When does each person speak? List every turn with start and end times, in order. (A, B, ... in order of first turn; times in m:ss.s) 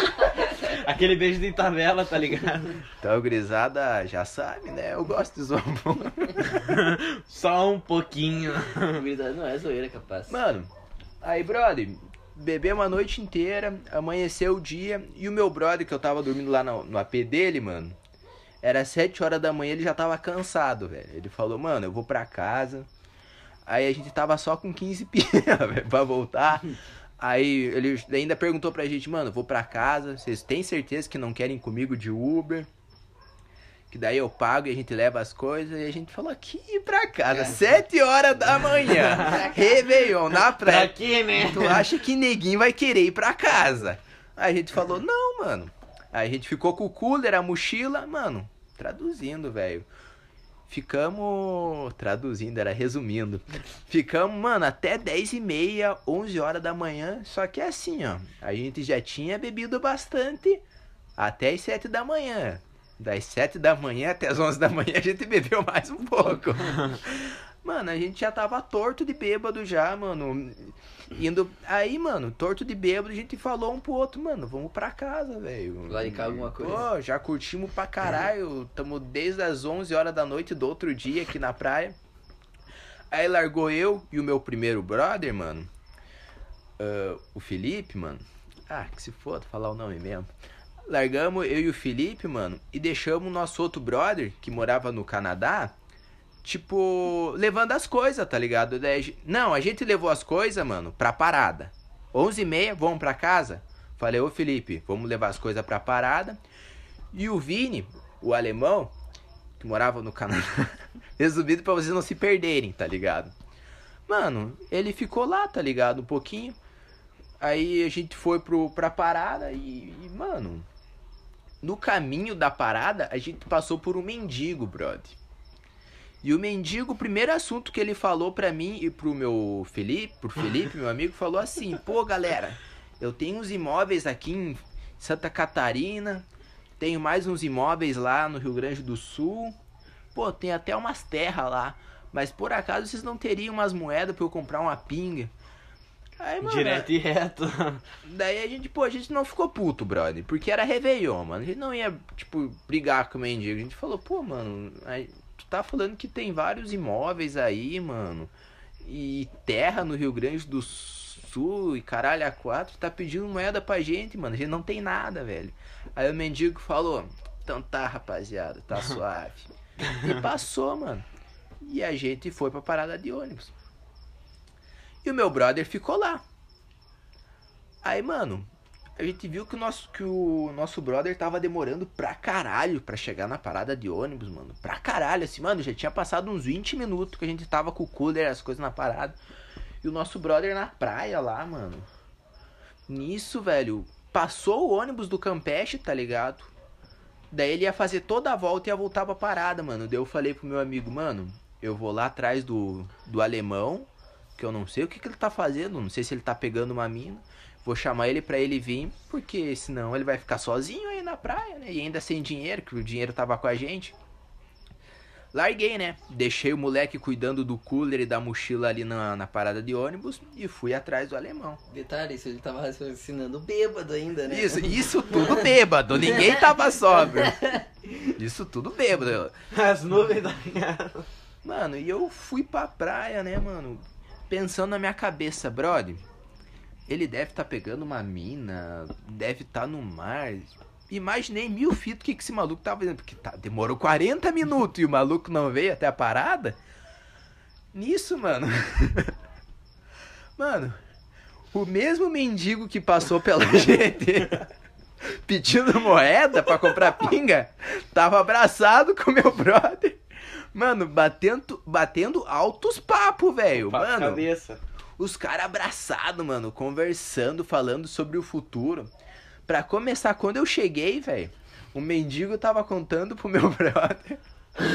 0:00.5-0:02.8 A
0:03.0-0:06.7 B
0:06.5-0:09.0 A
0:08.9-0:10.4 C
0:10.3-0:18.0 B
0:18.6-0:22.9 B
0:23.6-0:32.7 B
0:33.9-0:49.9 B
0:38.8-0:39.5 A
0:39.1-0:40.0 C
0:40.4-0:42.0 A
0:50.7-1:00.6 B
1:01.2-1:22.0 B
1:15.9-1:16.9 C
1:23.1-1:25.7 B
1:26.8-1:30.3 B
1:30.9-1:35.7 B
1:36.4-1:46.4 B
1:47.1-1:48.9 B
1:49.6-1:53.3 B
1:54.1-1:56.6 B
1:57.4-2:00.6 B
2:01.6-2:05.2 B
2:06.2-2:16.2 B
2:16.8-2:19.6 B
2:20.1-2:25.3 B
2:26.2-2:26.9 B
2:26.4-2:27.8 A
2:28.0-2:38.3 B
2:38.8-2:51.0 B
2:51.6-2:53.5 B
2:55.0-2:56.2 B
2:57.8-3:09.2 B
3:09.8-3:11.9 B
3:12.9-3:16.5 B
3:17.3-3:33.9 B
3:35.3-3:41.6 B
3:41.7-3:45.5 C
3:44.3-3:47.5 B
3:46.0-3:46.4 C
3:47.0-3:47.6 C
3:48.1-3:49.3 B
3:49.5-3:51.0 A
3:51.4-3:56.0 B
3:56.9-4:06.6 B
4:07.7-4:09.1 B
4:10.4-4:10.8 B
4:11.5-4:14.4 B
4:15.0-4:20.0 B
4:20.5-4:24.3 B
4:23.5-4:24.6 A
4:25.0-4:28.9 B
4:29.5-4:34.2 B